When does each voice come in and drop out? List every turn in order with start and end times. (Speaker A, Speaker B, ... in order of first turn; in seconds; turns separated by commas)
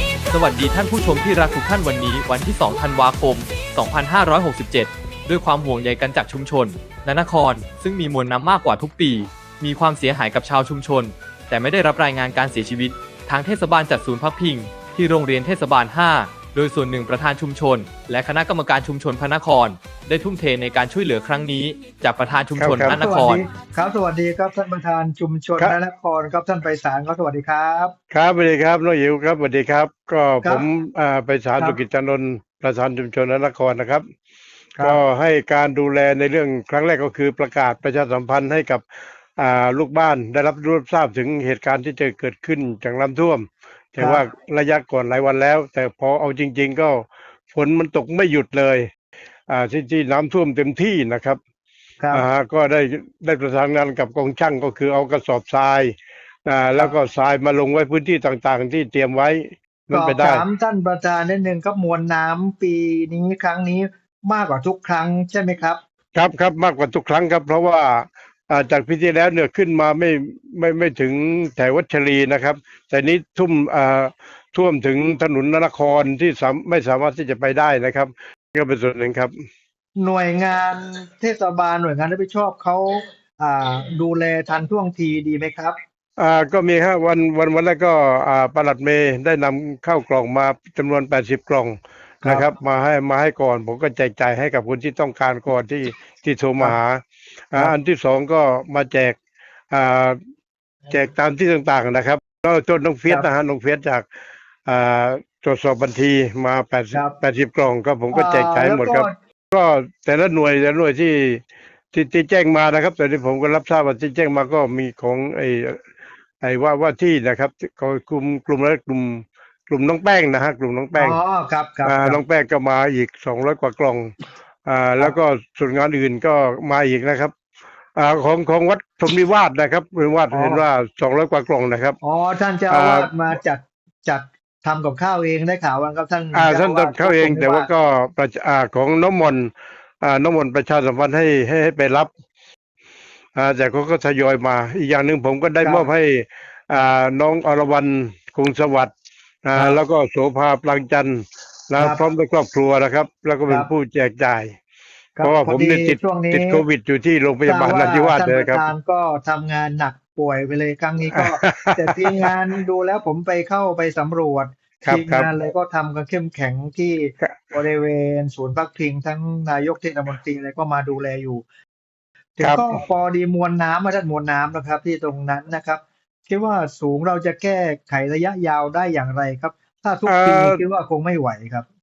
Speaker A: 0.3-23.4, Speaker B: 22.6-23.0, Speaker C: 22.9-27.9, Speaker B: 28.1-34.0, Speaker B: 34.8-38.8, Speaker B: 39.4-48.9, Speaker C: 44.0-44.2, Speaker B: 49.5-51.4, Speaker B: 52.1-55.9, Speaker B: 56.5-60.5, Speaker C: 59.9-65.8, Speaker B: 66.2-79.3, Speaker C: 80.0-85.8, Speaker B: 86.2-99.2, Speaker C: 92.2-92.5, Speaker B: 99.7-100.2, Speaker B: 100.9-104.0, Speaker B: 104.7-111.4, Speaker C: 108.1-109.1, Speaker B: 111.9-115.8, Speaker B: 116.4-121.2, Speaker C: 121.0-122.2, Speaker B: 121.8-124.1, Speaker B: 124.7-127.3, Speaker B: 128.0-132.0, Speaker C: 130.3-130.6, Speaker C: 132.0-137.7, Speaker B: 132.7-133.1, Speaker B: 136.3-142.1, Speaker B: 143.3-148.9, Speaker C: 145.6-145.9, Speaker B: 149.4-154.5, Speaker C: 151.8-152.0, Speaker C: 155.2-156.6, Speaker B: 155.2-158.7, Speaker C: 157.4-171.4, Speaker B: 161.1-162.3, Speaker B: 164.8-165.3, Speaker C: 172.4-181.7, Speaker B: 172.4-172.8, Speaker B: 180.1-180.6